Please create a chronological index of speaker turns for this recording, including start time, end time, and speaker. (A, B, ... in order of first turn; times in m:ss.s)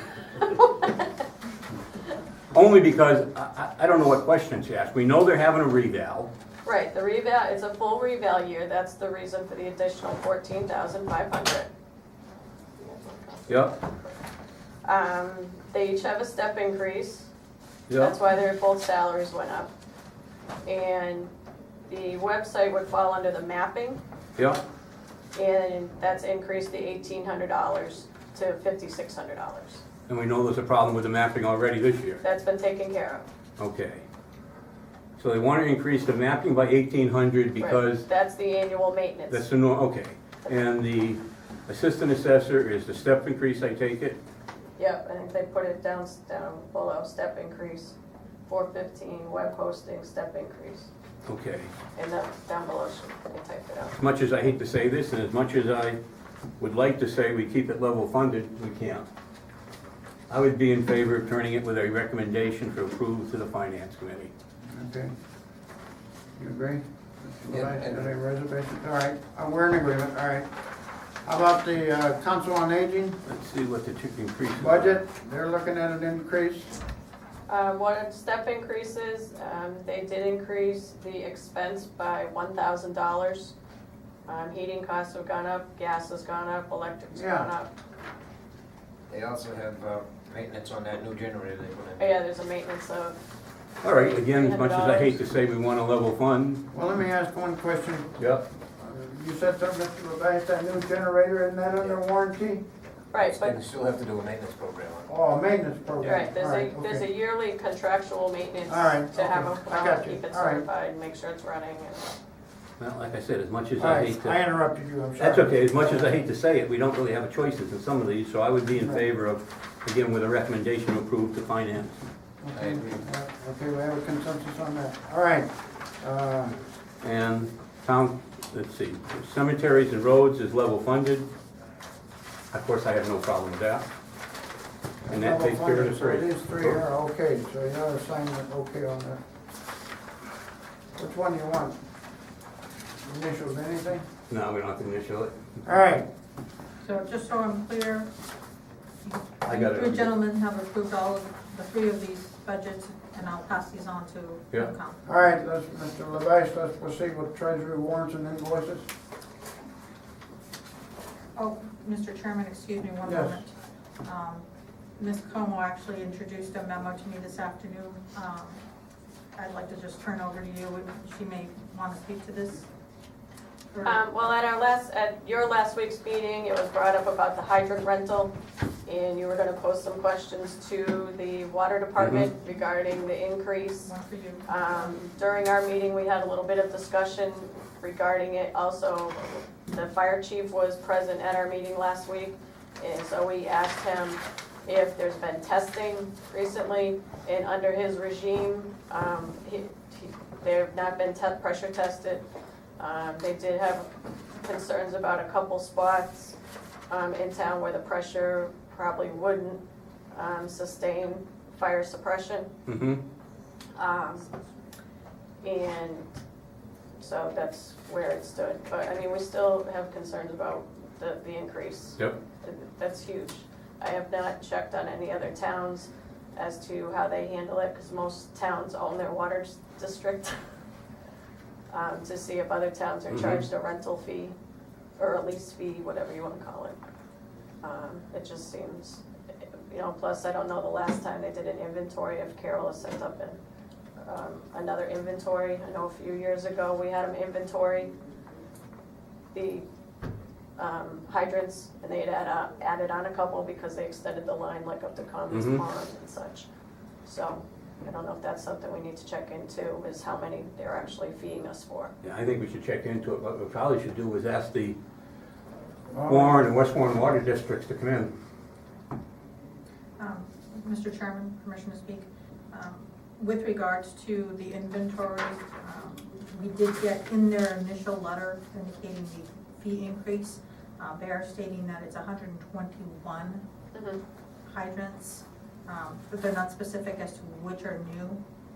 0:00.4-0:01.1 A
0:02.5-0:06.3 B
0:06.6-0:11.7 A
0:12.8-0:14.2 A
0:14.8-0:17.3 A
0:17.9-0:18.1 B
0:18.0-0:19.7 A
0:20.6-0:21.3 A
0:21.9-0:24.0 A
0:25.3-0:29.8 A
0:30.1-0:32.2 B
0:32.2-0:33.3 A
0:33.6-0:34.0 B
0:35.2-0:38.1 B
0:37.6-0:39.4 A
0:39.3-0:44.2 B
0:44.8-0:48.0 A
0:48.5-0:50.9 A
0:51.3-0:51.7 B
0:52.0-0:54.0 A
0:53.9-0:56.0 B
0:56.6-0:59.1 B
1:00.3-1:04.3 B
1:04.7-1:05.1 C
1:06.4-1:10.5 C
1:07.5-1:08.1 D
1:11.2-1:13.2 C
1:13.2-1:15.0 B
1:14.6-1:16.8 C
1:17.5-1:23.5 A
1:24.3-1:27.7 A
1:27.1-1:27.5 C
1:29.1-1:32.2 D
1:32.0-1:33.2 A
1:33.8-1:36.6 B
1:33.8-1:35.2 A
1:36.7-1:38.2 C
1:38.2-1:38.4 B
1:38.8-1:42.6 C
1:43.1-1:43.6 A
1:43.1-1:45.1 D
1:45.1-1:47.1 C
1:46.0-1:52.1 A
1:48.7-1:50.7 C
1:52.8-1:54.4 B
1:53.8-1:56.2 C
1:55.2-2:02.0 B
1:58.8-1:59.0 C
2:02.4-2:06.6 C
2:02.5-2:03.0 D
2:07.0-2:11.3 B
2:12.5-2:13.8 B
2:15.1-2:19.2 C
2:15.1-2:16.8 B
2:21.0-2:21.8 C
2:23.0-2:24.1 C
2:24.3-2:25.4 B
2:25.6-2:26.1 C
2:26.8-2:28.1 E
2:29.0-2:35.0 E
2:29.4-2:30.2 B
2:35.1-2:38.9 C
2:41.4-2:44.4 E
2:43.0-2:43.4 C
2:45.0-2:48.6 E
2:49.4-2:52.7 E
2:53.7-2:54.0 E
2:53.8-2:58.3 A
2:58.9-3:03.9 A
3:02.0-3:02.3 B
3:03.8-3:04.9 E
3:04.5-3:22.2 A
3:22.8-3:23.9 A
3:24.4-3:26.4 A
3:26.9-3:29.6 A
3:30.1-3:32.5 A
3:32.7-3:33.0 B
3:33.8-3:34.3 A
3:35.4-3:36.1 A
3:37.0-3:50.4 A
3:51.7-3:54.3 A
3:53.1-3:53.4 B
3:55.0-3:56.8 A
3:57.6-3:59.0 A
3:59.7-4:03.4 A
4:04.0-4:07.9 A
4:09.3-4:09.6 A
4:10.6-4:16.5 A
4:15.3-4:15.6 B
4:17.1-4:21.9 A
4:22.0-4:24.8 B
4:25.9-4:26.4 C
4:26.1-4:28.1 B
4:30.0-4:43.4 E
4:43.7-4:44.0 A
4:44.5-4:48.2 E